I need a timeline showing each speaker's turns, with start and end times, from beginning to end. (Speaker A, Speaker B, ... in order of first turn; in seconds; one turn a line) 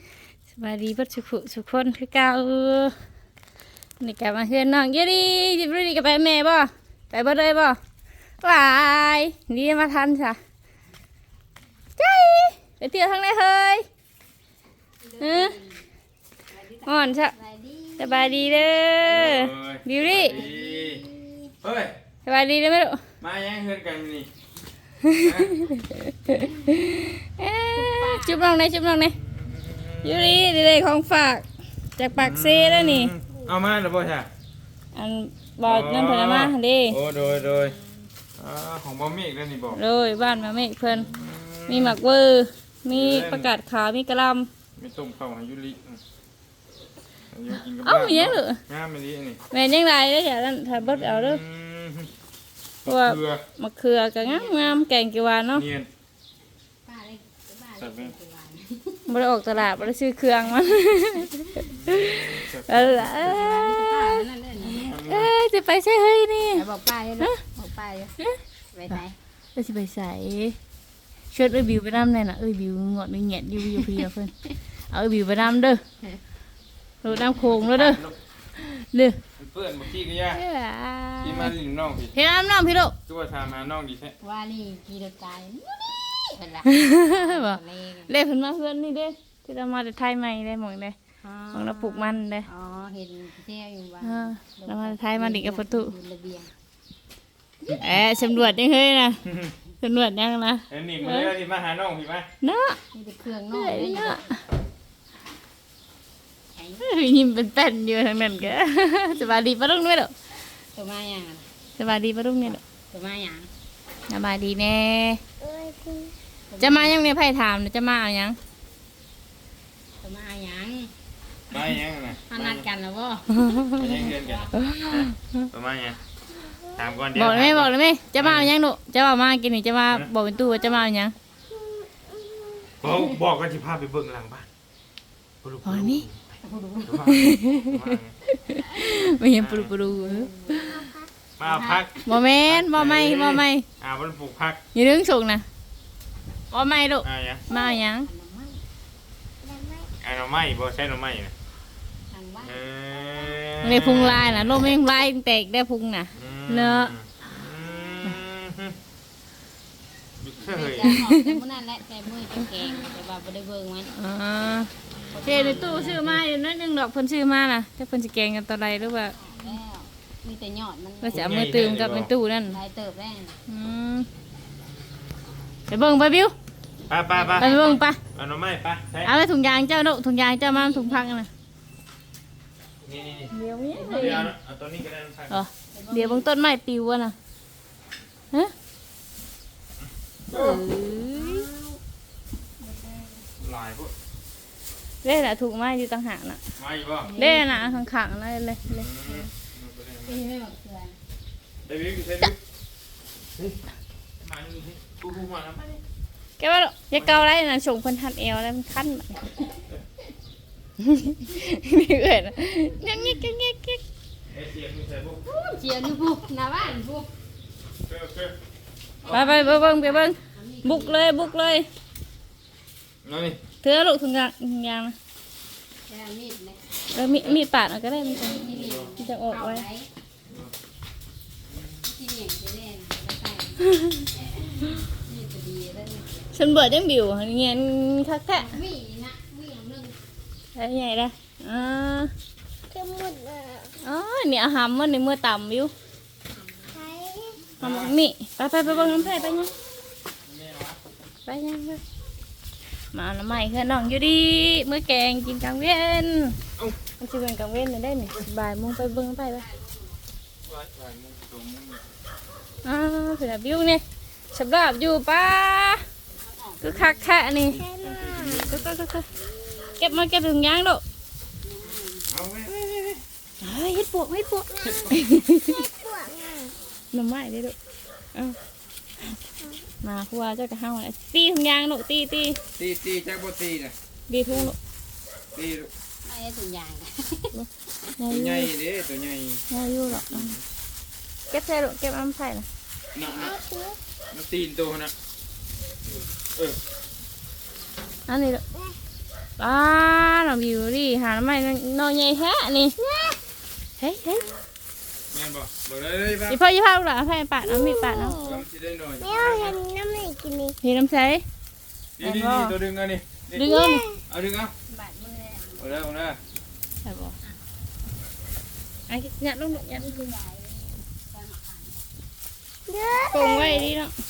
Speaker A: 0.5-3.0
Speaker A: 4.0-7.8
Speaker A: 8.4-10.4
Speaker A: 12.0-13.8
Speaker B: 15.0-15.9
Speaker A: 15.2-15.6
Speaker B: 16.5-19.3
Speaker A: 16.9-17.3
Speaker A: 18.0-20.5
Speaker C: 19.1-21.1
Speaker B: 20.5-21.1
Speaker C: 21.6-22.0
Speaker A: 22.2-23.0
Speaker C: 23.2-24.3
Speaker A: 25.0-29.2
Speaker C: 25.2-25.7
Speaker B: 27.7-28.5
Speaker C: 29.2-30.4
Speaker A: 30.0-33.1
Speaker C: 32.1-34.3
Speaker A: 34.9-37.0
Speaker C: 35.6-37.8
Speaker B: 37.5-37.9
Speaker C: 38.4-39.8
Speaker A: 39.7-41.1
Speaker C: 40.9-42.0
Speaker A: 41.7-44.5
Speaker C: 42.9-43.5
Speaker C: 44.8-46.0
Speaker C: 47.3-49.4
Speaker A: 47.7-48.6
Speaker A: 49.5-51.4
Speaker C: 50.8-52.1
Speaker C: 52.8-53.4
Speaker A: 52.8-55.6
Speaker B: 54.1-54.8
Speaker C: 55.5-55.9
Speaker B: 56.8-59.1
Speaker C: 57.8-58.1
Speaker A: 59.1-66.7
Speaker C: 61.6-63.3
Speaker B: 63.1-64.9
Speaker C: 64.7-65.3
Speaker B: 66.5-69.1
Speaker A: 69.5-70.6
Speaker A: 71.3-74.3
Speaker A: 74.9-75.8
Speaker A: 77.0-78.0
Speaker C: 77.1-78.2
Speaker A: 78.5-79.2
Speaker C: 79.3-80.4
Speaker A: 80.3-81.5
Speaker C: 81.2-82.2
Speaker A: 82.1-83.0
Speaker C: 83.0-84.2
Speaker B: 84.2-88.1
Speaker A: 86.7-90.9
Speaker B: 91.2-96.5
Speaker A: 91.5-92.5
Speaker A: 94.0-95.9
Speaker A: 97.7-99.2
Speaker C: 99.3-99.5
Speaker A: 99.8-101.3
Speaker C: 100.7-102.3
Speaker A: 102.4-102.8
Speaker B: 102.9-104.2
Speaker A: 103.5-104.4
Speaker B: 106.5-106.9
Speaker A: 106.8-110.1
Speaker B: 110.4-111.5
Speaker A: 111.8-112.6
Speaker B: 112.9-113.5
Speaker A: 114.1-115.2
Speaker D: 115.4-116.1
Speaker B: 116.5-117.2
Speaker A: 116.6-118.4
Speaker B: 120.0-120.9
Speaker C: 121.5-122.7
Speaker B: 122.3-124.7
Speaker A: 123.3-125.4
Speaker C: 123.7-126.0
Speaker C: 126.6-128.5
Speaker A: 127.1-131.1
Speaker D: 132.2-132.7
Speaker C: 132.8-134.5
Speaker C: 135.4-136.2
Speaker A: 135.6-136.0
Speaker B: 136.4-137.1
Speaker C: 136.8-138.2
Speaker A: 137.0-140.9
Speaker C: 139.3-139.8
Speaker B: 140.0-140.9
Speaker C: 141.4-144.6
Speaker B: 141.4-142.2
Speaker A: 142.0-143.7
Speaker A: 144.7-145.4
Speaker A: 146.5-148.1
Speaker C: 147.0-147.4
Speaker B: 147.5-148.6
Speaker D: 149.4-149.8
Speaker C: 150.0-151.3
Speaker B: 152.1-153.4
Speaker C: 152.4-154.7
Speaker A: 153.6-156.9
Speaker C: 156.2-158.8
Speaker C: 160.2-161.0
Speaker B: 160.4-163.9
Speaker A: 160.8-161.4
Speaker A: 163.9-164.7
Speaker B: 165.1-166.2
Speaker A: 165.2-169.2
Speaker B: 169.1-171.3
Speaker A: 171.0-172.6
Speaker C: 171.1-172.1
Speaker B: 172.5-173.4
Speaker A: 173.5-174.1
Speaker A: 175.7-176.3
Speaker C: 176.9-177.6
Speaker B: 177.1-177.8
Speaker A: 177.3-178.0
Speaker C: 178.1-179.1
Speaker A: 179.0-181.3
Speaker B: 180.4-181.2
Speaker C: 182.8-183.3
Speaker A: 183.3-184.3
Speaker B: 183.7-184.3
Speaker C: 183.9-185.4
Speaker A: 185.3-187.1
Speaker B: 185.7-186.3
Speaker C: 189.8-190.6
Speaker B: 190.3-191.8
Speaker A: 190.3-191.5
Speaker B: 192.6-193.3
Speaker C: 193.4-193.9
Speaker A: 195.0-196.4
Speaker C: 196.6-197.1
Speaker B: 197.0-197.9
Speaker A: 197.2-198.9
Speaker C: 198.6-200.2
Speaker B: 200.0-201.0
Speaker C: 201.6-202.4
Speaker C: 204.2-205.8
Speaker A: 206.4-209.4
Speaker C: 207.0-207.2
Speaker A: 210.8-213.8
Speaker C: 214.3-215.2
Speaker B: 215.2-217.1
Speaker C: 217.8-218.3
Speaker B: 219.0-221.6
Speaker A: 219.1-221.7
Speaker C: 223.0-223.4
Speaker A: 223.6-224.9
Speaker B: 225.9-227.3
Speaker A: 226.9-229.6
Speaker B: 227.9-229.9
Speaker C: 228.5-228.9
Speaker C: 230.3-230.5
Speaker B: 231.8-236.3
Speaker A: 236.3-238.6
Speaker B: 238.3-240.0
Speaker A: 240.5-242.1
Speaker D: 242.7-243.7
Speaker A: 243.8-245.7
Speaker B: 246.3-246.9
Speaker D: 246.8-247.4
Speaker C: 247.6-247.9
Speaker A: 247.6-249.5
Speaker C: 248.6-249.6
Speaker C: 250.2-250.8
Speaker A: 251.2-251.8
Speaker A: 252.9-256.4
Speaker A: 257.0-259.4
Speaker B: 259.2-260.0
Speaker C: 260.4-261.8
Speaker A: 262.6-265.8
Speaker B: 266.1-267.4
Speaker A: 266.6-267.7
Speaker C: 267.4-268.7
Speaker D: 267.7-268.5
Speaker A: 268.3-269.1
Speaker B: 269.1-270.1
Speaker A: 269.8-270.8
Speaker B: 271.4-272.1
Speaker C: 272.1-273.0
Speaker A: 273.4-275.6
Speaker D: 275.6-276.5
Speaker A: 276.9-277.5
Speaker A: 279.8-282.4
Speaker C: 282.5-283.8
Speaker A: 284.1-284.6
Speaker C: 285.3-285.7
Speaker B: 286.0-287.4
Speaker A: 288.0-288.5
Speaker C: 288.1-290.4
Speaker A: 289.5-290.4
Speaker A: 291.3-292.4
Speaker C: 292.9-293.4
Speaker D: 293.2-293.8
Speaker C: 294.1-294.9
Speaker C: 296.3-296.6
Speaker A: 298.1-298.4
Speaker A: 299.4-302.8
Speaker D: 302.8-303.2
Speaker A: 303.8-304.2
Speaker B: 304.1-304.4
Speaker C: 305.1-306.4
Speaker A: 306.3-308.2
Speaker C: 308.2-309.6
Speaker D: 309.0-310.5
Speaker A: 310.6-311.2
Speaker C: 312.0-314.5
Speaker A: 312.0-312.6
Speaker A: 313.3-313.9
Speaker D: 313.6-313.9
Speaker B: 314.7-315.7
Speaker C: 315.6-316.2
Speaker A: 316.8-317.1
Speaker A: 318.9-320.1
Speaker B: 319.5-321.9
Speaker D: 322.7-323.7
Speaker A: 323.0-323.9